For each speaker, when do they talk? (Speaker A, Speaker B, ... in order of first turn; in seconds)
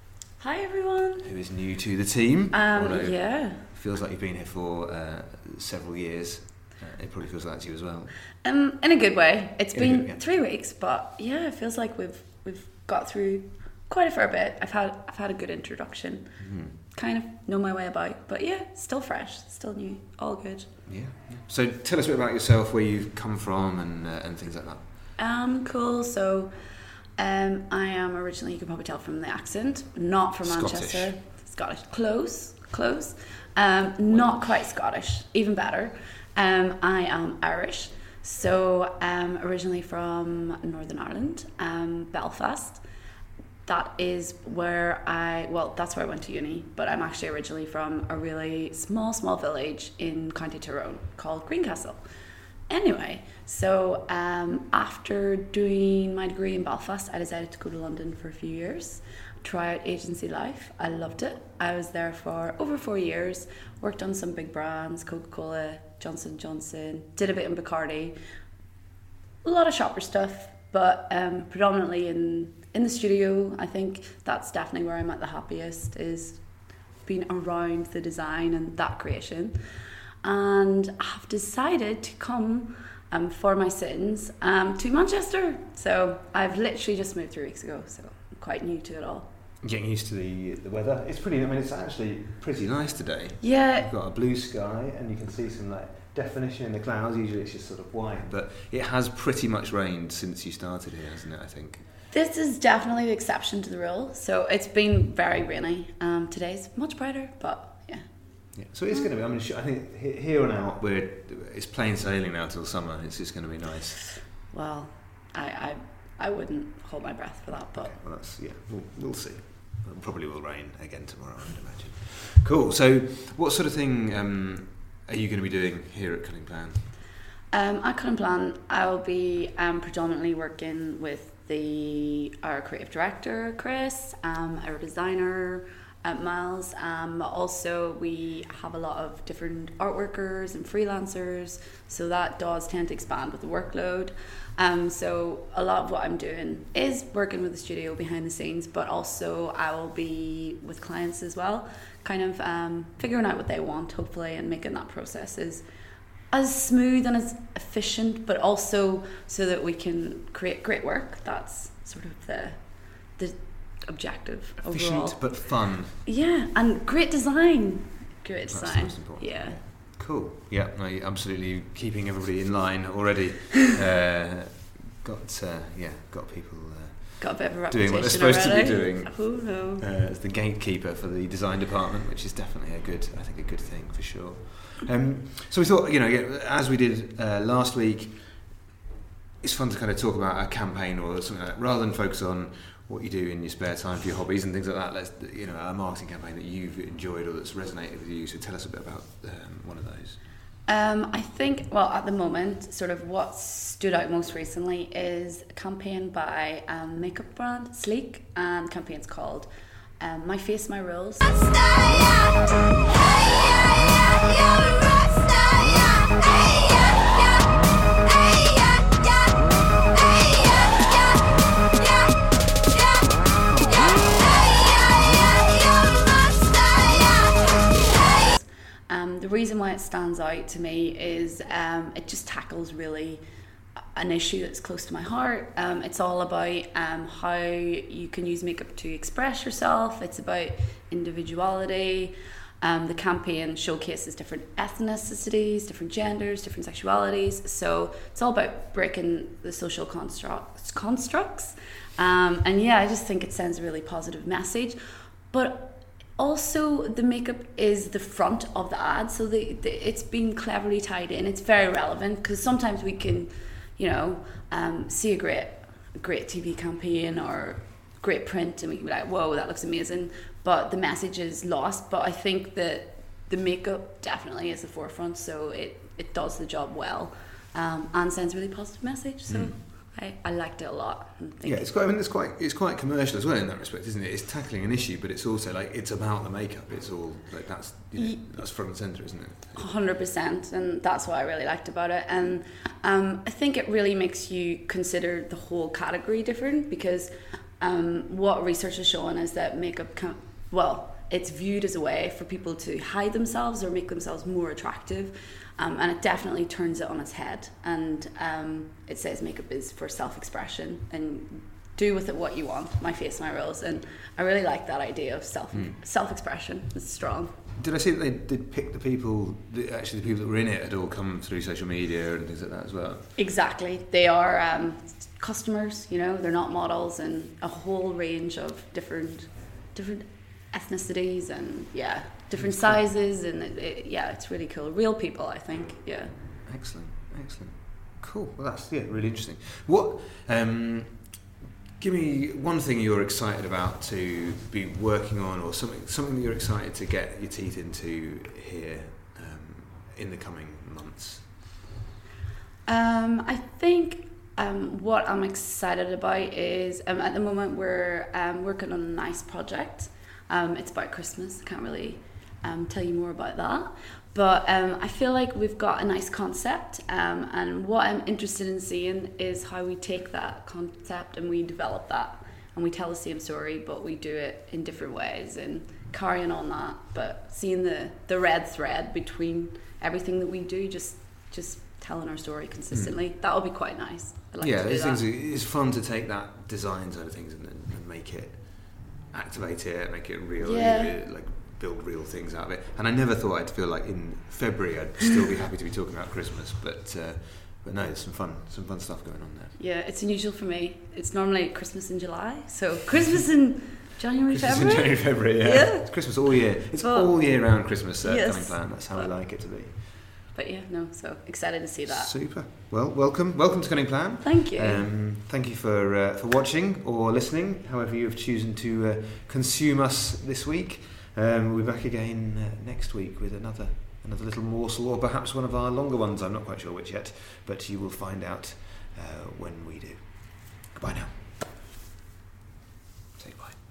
Speaker A: 0.4-1.3, 2.5-3.6, 8.4-20.8, 25.2-26.6, 27.2-42.8, 43.6-52.1, 52.7-68.2, 69.4-79.6, 80.2-89.3, 93.4-93.9, 102.1-109.0, 114.5-118.0, 127.5-155.7, 156.3-169.6, 177.2-179.8, 200.7-212.2, 226.0-233.2, 233.9-254.8, 255.3-281.7, 287.9-288.2, 289.6-317.4, 323.1-336.1, 352.6-385.0, 390.4-391.0, 399.6-409.1, 410.3-412.1, 414.2-414.9
Speaker B: 1.2-8.1, 9.7-10.2, 16.4-16.7, 20.9-24.9, 30.4-31.1, 34.1-34.4, 89.6-101.8, 108.5-114.1, 117.7-126.9, 164.7-165.9, 168.5-188.5, 189.4-200.2, 279.3-279.6, 281.4-289.7, 315.5-315.8, 317.6-323.1, 332.3-332.8, 336.4-341.3, 341.8-351.5, 382.7-383.0, 384.4-399.6, 404.3-409.8, 411.9-431.4, 433.2-433.6